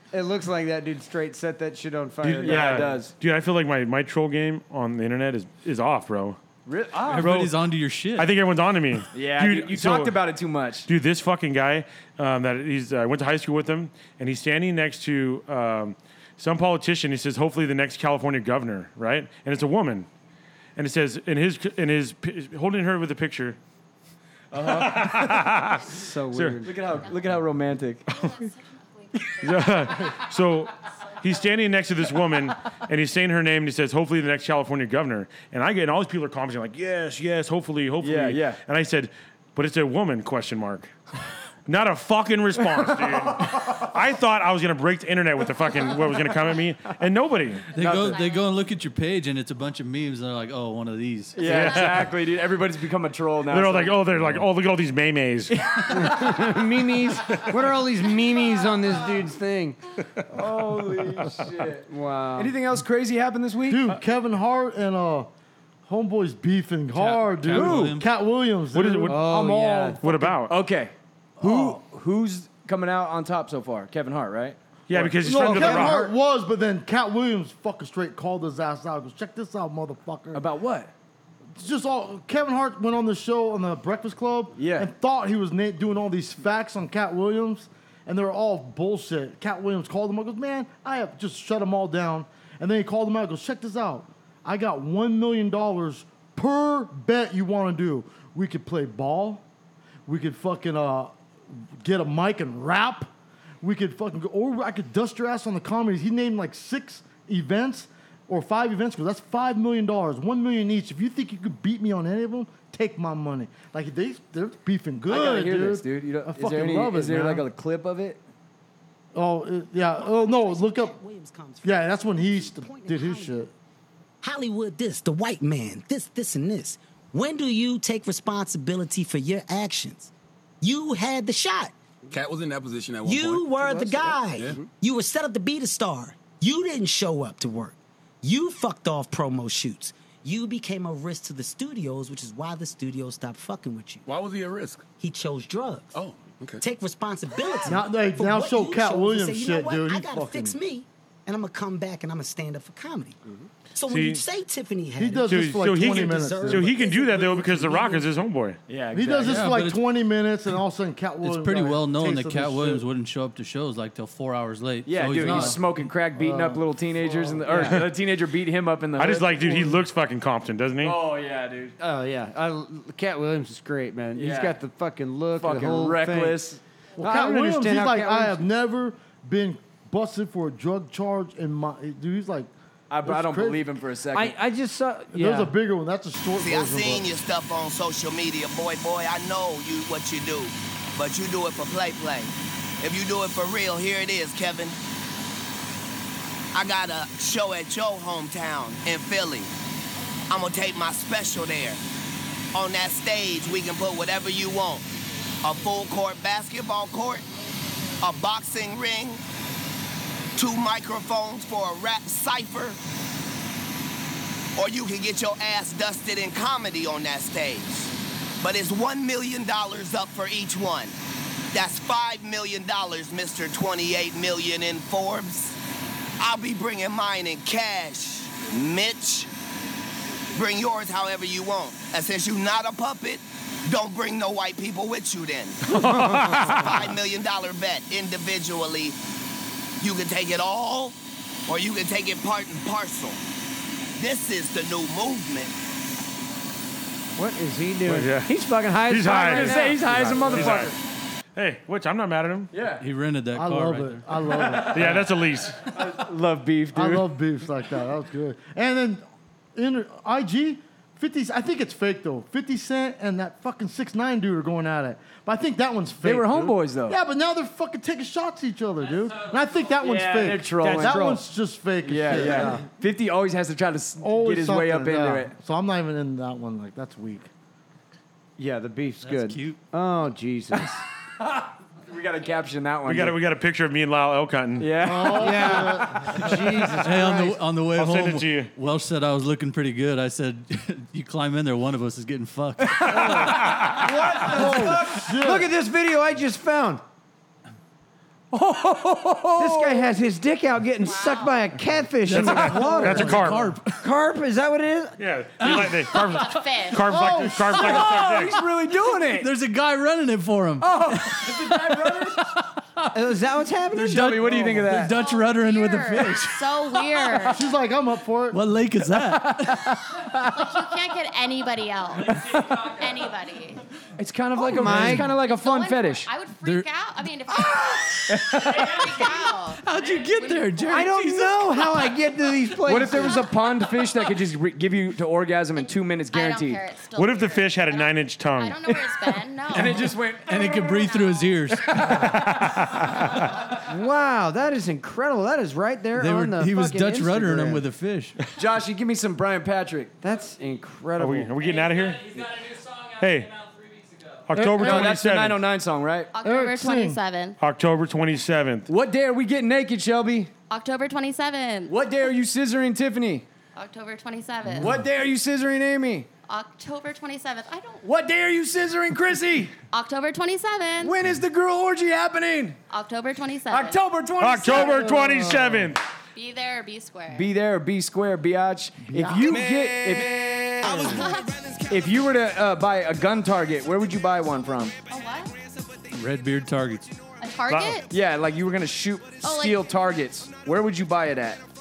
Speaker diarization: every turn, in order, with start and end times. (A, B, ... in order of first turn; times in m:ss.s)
0:00.1-0:02.9 A
0:02.3-0:03.1 B
0:02.3-0:06.4 C
0:06.7-0:07.5 B
0:07.1-0:08.4 D
0:08.2-0:10.2 C
0:09.1-0:10.9 B
0:10.9-0:20.1 C
0:20.8-0:23.6 C
0:24.5-0:25.3 B
0:24.5-0:26.6 C
0:25.9-0:27.0 A
0:26.6-0:28.2 B
0:26.9-0:27.4 E
0:28.1-0:31.5 E
0:29.4-0:40.9 C
0:38.0-0:38.6 B
0:41.7-0:47.7 C
0:47.7-0:48.6 E
0:47.7-0:51.9 D
0:47.8-0:48.1 B
0:51.4-0:54.0 B
0:51.4-0:52.1 C
0:53.5-0:55.7 C
0:54.2-0:54.4 D
0:55.5-0:56.6 B
0:55.9-0:59.8 A
0:57.3-0:57.6 C
1:00.3-1:03.9 B
1:01.9-1:02.6 A
1:03.6-1:05.3 F
1:05.9-1:10.4 F
1:07.0-1:08.1 D
1:07.5-1:08.0 B
1:08.7-1:09.3 C
1:09.1-1:10.0 A
1:10.0-1:10.6 C
1:10.5-1:16.1 B
1:11.4-1:11.8 A
1:14.9-1:16.1 C
1:15.2-1:20.4 F
1:20.3-1:20.9 B
1:21.6-1:39.4 F
1:24.6-1:24.9 B
1:40.1-1:57.4 F
1:55.1-1:58.2 B
1:59.1-2:01.0 F
1:59.8-2:03.4 G
2:01.6-2:03.5 F
2:04.2-2:11.7 G
2:12.1-2:13.6 H
2:13.0-2:24.0 G
2:13.7-2:14.1 A
2:14.3-2:14.7 H
2:24.0-2:24.9 H
2:25.0-2:26.0 G
2:25.9-2:26.6 H
2:26.6-2:33.2 G
2:27.7-2:30.6 F
2:33.8-2:37.6 G
2:33.9-2:34.2 C
2:35.0-2:38.0 F
2:35.2-2:38.6 C
2:38.7-2:39.5 B
2:38.9-2:42.8 F
2:39.2-2:39.8 D
2:41.2-2:45.6 D
2:44.8-2:49.8 B
2:45.2-2:45.6 F
2:46.1-2:47.5 F
2:47.4-2:47.8 A
2:49.0-2:51.0 C
2:50.8-2:51.8 B
2:51.8-2:58.4 A
2:54.2-2:54.6 B
2:55.4-2:56.6 B
2:57.0-3:02.5 F
3:02.9-3:04.4 B
3:03.0-3:03.7 F
3:04.1-3:05.5 A
3:05.1-3:07.2 F
3:06.4-3:14.8 I
3:16.5-3:19.5 I
3:20.3-3:21.8 I
3:22.5-3:24.9 I
3:25.4-3:27.2 I
3:28.0-3:29.2 I
3:30.4-3:32.8 I
3:34.6-3:40.9 I
3:41.5-3:45.6 I
3:46.2-3:49.3 I
3:50.3-3:55.7 I
3:55.7-3:57.0 C
3:55.8-3:56.7 A
3:56.6-3:59.0 I
3:59.8-4:01.0 I
4:01.5-4:03.2 I
4:04.0-4:05.5 I
4:07.2-4:10.7 A
4:07.9-4:08.3 C
4:08.8-4:10.7 C
4:09.3-4:10.8 B
4:11.4-4:12.5 C
4:12.5-4:12.8 B
4:12.8-4:15.0 D
4:13.3-4:15.0 F
4:14.3-4:14.8 B
4:14.7-4:15.7 C
4:15.7-4:17.2 B
4:16.7-4:19.0 F
4:19.6-4:32.6 F
4:26.0-4:27.0 B
4:29.8-4:31.2 B
4:30.6-4:31.1 C
4:31.8-4:35.3 B
4:32.1-4:32.5 C
4:34.0-4:37.3 F
4:38.4-4:40.8 A
4:39.0-4:39.6 D
4:41.8-4:43.2 B
4:42.9-4:45.2 C
4:44.6-4:45.7 B
4:44.8-4:46.7 F
4:45.2-4:47.4 A
4:46.8-4:53.3 D
4:47.8-4:48.5 C
4:52.9-4:56.8 A
4:52.9-4:54.3 C
4:53.0-4:53.4 F
4:54.2-4:55.5 F
4:54.4-4:54.7 B
4:58.3-4:59.8 B
4:59.4-5:05.0 A
5:00.8-5:01.6 E
5:02.0-5:03.8 D
5:02.1-5:03.6 C
5:02.6-5:03.5 F
5:05.0-5:08.4 C
5:05.4-5:05.8 D
5:06.0-5:06.9 E
5:06.8-5:08.3 F
5:07.5-5:09.3 B
5:09.1-5:12.9 D
5:10.6-5:12.3 B
5:12.9-5:14.4 A
5:13.8-5:15.0 B
5:13.8-5:17.3 D
5:14.8-5:17.4 E
5:17.2-5:18.4 F
5:18.3-5:20.3 D
5:20.3-5:23.6 E
5:24.0-5:26.1 B
5:24.4-5:25.2 A
5:24.5-5:25.2 D
5:25.1-5:30.9 E
5:26.4-5:26.7 D
5:27.3-5:28.8 D
5:28.1-5:29.1 B
5:29.6-5:32.0 D
5:30.6-5:33.3 A
5:32.6-5:36.6 B
5:32.9-5:34.2 E
5:35.6-5:41.9 E
5:37.0-5:39.2 C
5:39.5-5:40.6 B
5:39.5-5:42.7 D
5:41.7-5:43.6 C
5:43.7-5:47.6 A
5:46.0-5:48.2 D
5:48.4-5:50.0 B
5:50.0-5:51.4 A
5:51.0-5:52.2 C
5:53.0-5:53.4 C
5:54.3-5:55.4 C
5:54.3-5:55.0 F
5:54.5-5:56.1 B
5:56.1-5:57.4 E
5:56.2-5:57.0 F
5:57.4-5:58.7 C
5:58.7-6:00.3 B
6:00.5-6:01.8 E
6:01.7-6:03.2 B
6:03.6-6:04.7 E
6:04.5-6:06.1 B
6:06.3-6:07.9 E
6:07.8-6:09.5 B
6:09.7-6:11.0 E
6:10.8-6:12.6 B
6:12.7-6:13.8 E
6:13.5-6:14.9 B
6:14.2-6:15.8 C
6:14.5-6:15.7 F
6:16.2-6:17.3 E
6:17.1-6:20.8 B
6:18.9-6:19.4 F
6:20.6-6:21.1 A
6:20.9-6:21.3 E
6:21.7-6:24.7 B
6:24.9-6:25.3 E
6:25.9-6:26.9 D
6:27.2-6:27.9 E
6:27.5-6:27.8 C
6:27.9-6:31.4 B
6:29.2-6:29.6 E